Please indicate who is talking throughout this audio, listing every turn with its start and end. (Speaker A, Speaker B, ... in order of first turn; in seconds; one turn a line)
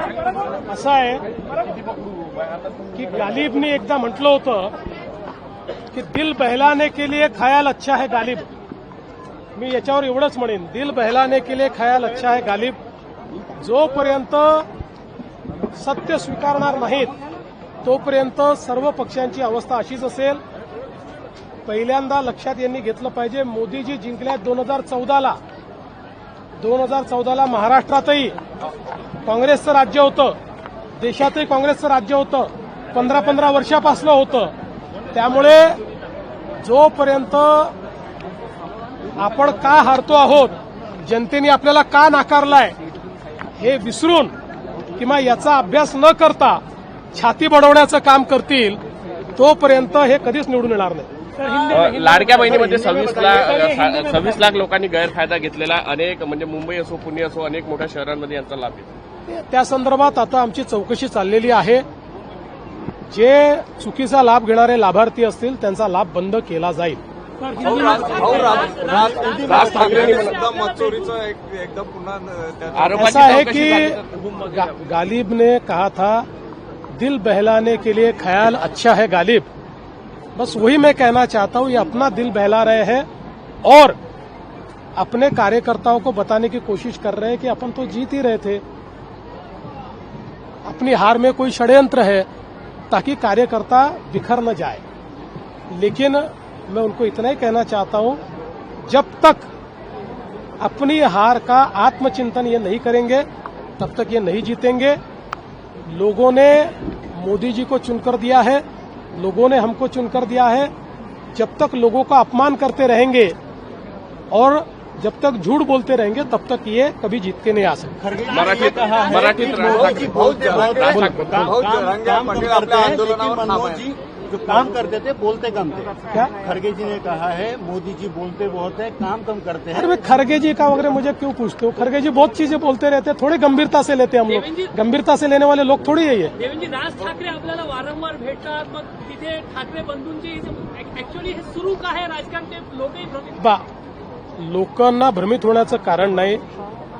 Speaker A: 0.7-1.2
Speaker A: 2.9-4.7
Speaker A: 5.9-8.4
Speaker A: 9.5-12.8
Speaker A: 13.6-14.7
Speaker A: 15.7-17.1
Speaker A: 17.8-20.4
Speaker A: 21.6-25.4
Speaker A: 26.6-28.3
Speaker A: 29.2-30.4
Speaker A: 31.0-34.5
Speaker A: 35.1-35.8
Speaker A: 36.6-37.7
Speaker A: 39.2-42.8
Speaker A: 43.6-44.3
Speaker A: 45.0-46.6
Speaker A: 47.1-48.8
Speaker A: 49.4-51.1
Speaker B: 51.4-52.2
Speaker C: 51.5-58.9
Speaker D: 52.5-53.5
Speaker A: 59.2-61.8
Speaker A: 63.1-67.0
Speaker B: 67.4-71.1
Speaker E: 67.6-69.3
Speaker D: 68.8-70.2
Speaker C: 69.3-70.4
Speaker E: 69.9-73.0
Speaker C: 72.7-74.2
Speaker A: 72.9-76.2
Speaker A: 76.9-79.5
Speaker A: 80.3-83.0
Speaker A: 83.6-84.0
Speaker A: 85.0-88.6
Speaker A: 90.6-92.3
Speaker A: 92.9-94.8
Speaker A: 95.7-98.2
Speaker A: 98.8-99.5
Speaker A: 100.6-103.2
Speaker A: 103.8-105.0
Speaker A: 105.8-108.6
Speaker A: 109.2-110.7
Speaker A: 111.3-113.3
Speaker A: 114.3-118.0
Speaker D: 118.0-130.0
Speaker C: 118.3-121.6
Speaker B: 118.4-119.8
Speaker E: 120.1-120.7
Speaker E: 121.4-124.0
Speaker A: 129.7-136.3
Speaker B: 134.3-134.7
Speaker B: 136.4-143.3
Speaker A: 143.4-143.6
Speaker A: 144.4-146.4